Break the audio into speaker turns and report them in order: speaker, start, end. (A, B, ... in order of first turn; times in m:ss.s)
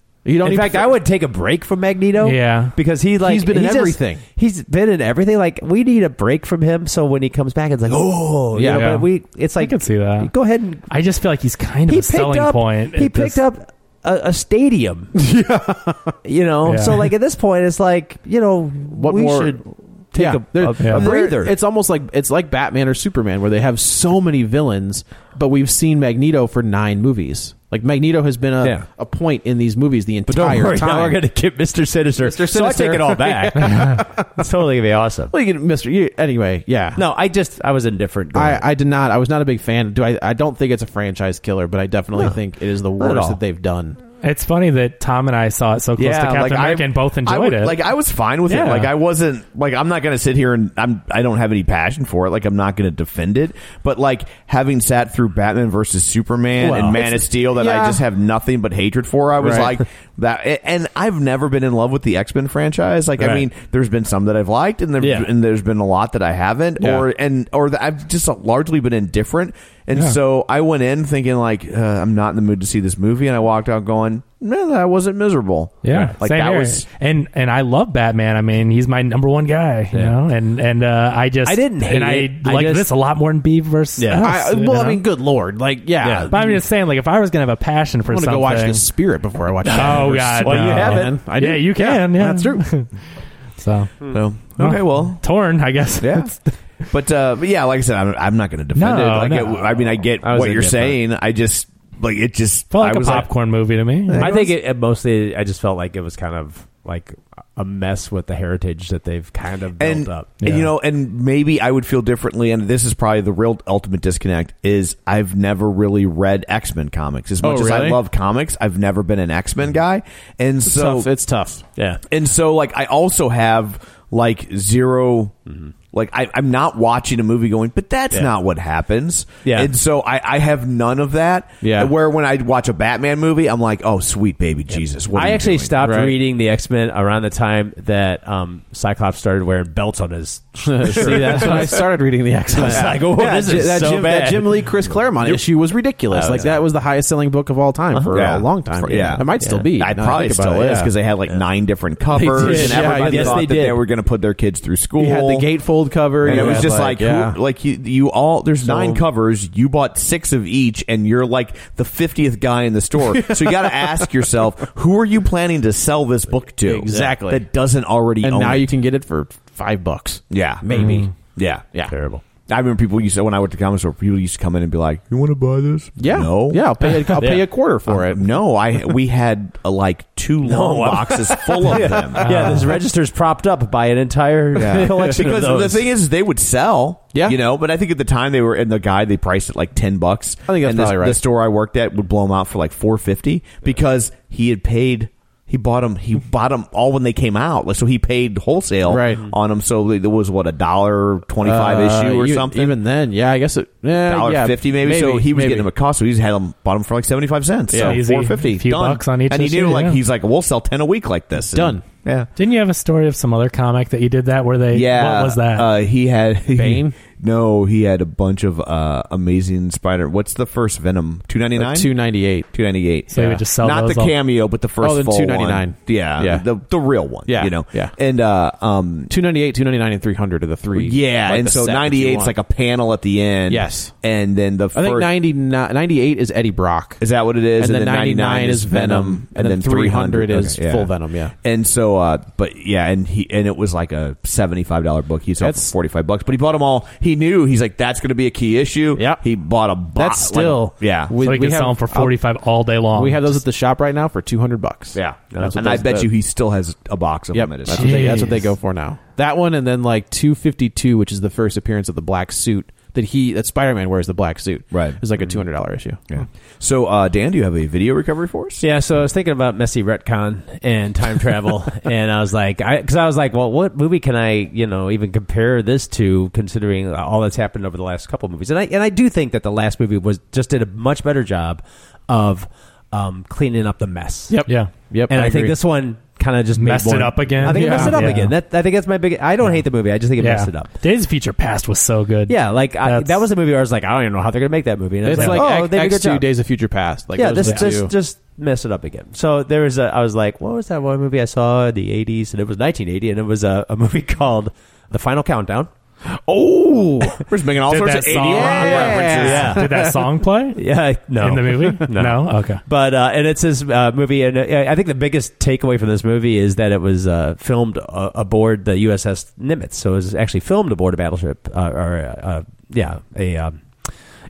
0:00.2-0:01.0 A
0:00.4-0:10.9 B
0:02.2-0:02.7 C
0:03.2-0:04.2 A
0:08.5-0:08.9 A
0:08.7-0:10.3 C
0:10.9-0:13.4 C
0:11.9-0:15.1 B
0:15.2-0:16.1 A
0:16.2-0:21.6 B
0:16.6-0:17.0 C
0:18.9-0:19.6 A
0:20.1-0:31.2 A
0:20.8-0:21.1 C
0:30.3-0:35.3 B
0:32.2-0:34.2 A
0:35.3-0:37.0 A
0:37.0-0:38.6 B
0:38.3-0:44.0 A
0:43.0-0:43.4 B
0:44.2-0:47.8 C
0:46.0-1:16.9 D
0:48.5-0:48.9 C
0:56.6-0:57.0 B
0:56.6-0:58.0 A
0:59.4-0:59.8 A
1:03.2-1:03.4 B
1:05.0-1:05.3 B
1:06.8-1:07.0 A
1:15.8-1:25.0 C
1:21.4-1:22.9 B
1:24.0-1:24.3 B
1:24.2-1:26.6 A
1:26.0-1:26.3 B
1:26.3-1:28.8 C
1:28.1-1:32.6 A
1:29.6-1:31.1 B
1:29.7-1:32.9 C
1:33.6-1:33.9 C
1:34.1-1:35.2 D
1:34.6-1:36.5 C
1:36.0-1:36.3 D
1:36.8-1:43.3 D
1:38.7-1:39.8 C
1:40.2-1:41.0 B
1:42.7-1:44.3 C
1:44.1-1:44.5 D
1:44.2-1:50.4 B
1:49.8-2:01.1 D
1:50.4-1:50.7 C
1:57.4-1:58.0 A
2:00.6-2:01.6 A
2:01.8-2:02.0 B
2:02.1-2:05.3 D
2:05.9-2:15.8 D
2:09.4-2:09.7 B
2:11.6-2:11.9 A
2:15.1-2:21.8 B
2:15.8-2:16.1 A
2:20.6-2:30.9 A
2:21.1-2:21.6 D
2:22.5-2:25.4 B
2:26.1-2:26.6 B
2:27.9-2:28.3 B
2:28.1-2:35.5 D
2:28.9-2:29.7 B
2:32.1-2:33.4 A
2:32.3-2:33.8 B
2:35.0-2:37.4 A
2:36.2-2:48.7 D
2:36.2-2:36.8 B
2:38.6-2:39.0 A
2:43.1-2:43.9 A
2:46.6-2:47.4 A
2:48.2-2:51.1 A
2:50.3-2:51.7 D
2:50.8-2:51.1 C
2:51.9-2:52.2 B
2:52.5-2:57.2 D
2:56.0-2:58.2 A
2:57.1-2:57.5 B
2:57.9-3:02.5 D
3:00.4-3:05.9 B
3:02.2-3:02.8 C
3:04.6-3:22.8 D
3:04.7-3:05.3 A
3:10.5-3:11.2 A
3:18.9-3:19.2 A
3:21.4-3:25.7 A
3:24.0-3:32.3 D
3:27.7-3:28.0 A
3:27.7-3:30.0 C
3:31.5-3:31.8 A
3:32.4-3:35.7 C
3:34.7-3:41.9 D
3:36.5-3:37.0 A
3:41.6-3:42.5 A
3:42.4-3:49.1 D
3:43.1-3:43.4 A
3:43.1-3:44.1 C
3:44.8-3:46.5 A
3:47.2-3:47.9 A
3:49.1-3:52.3 A
3:50.7-3:55.1 D
3:53.5-3:53.9 A
3:54.7-3:57.0 A
3:57.0-4:00.9 D
3:57.6-4:01.3 A
4:01.4-4:11.1 D
4:05.4-4:05.7 A
4:09.0-4:09.2 A
4:09.9-4:12.2 A
4:11.2-4:13.4 C
4:12.9-4:16.1 A
4:14.9-4:18.1 D
4:15.3-4:15.6 B
4:17.3-4:26.0 A
4:17.8-4:18.4 C
4:24.7-4:25.0 D
4:26.1-4:28.6 D
4:28.6-4:44.4 B
4:44.3-4:45.6 A
4:45.1-4:50.7 B
4:46.6-4:48.3 C
4:47.4-4:48.2 A
4:50.2-4:53.2 C
4:52.3-4:56.3 B
4:55.0-4:57.9 A
4:55.1-4:55.4 C
4:57.1-5:05.7 B
4:57.4-4:57.7 C
5:06.1-5:07.2 A
5:07.2-5:09.6 D
5:07.7-5:10.6 C
5:08.2-5:10.1 A
5:09.1-5:09.9 B
5:10.6-5:23.9 B
5:11.2-5:12.6 C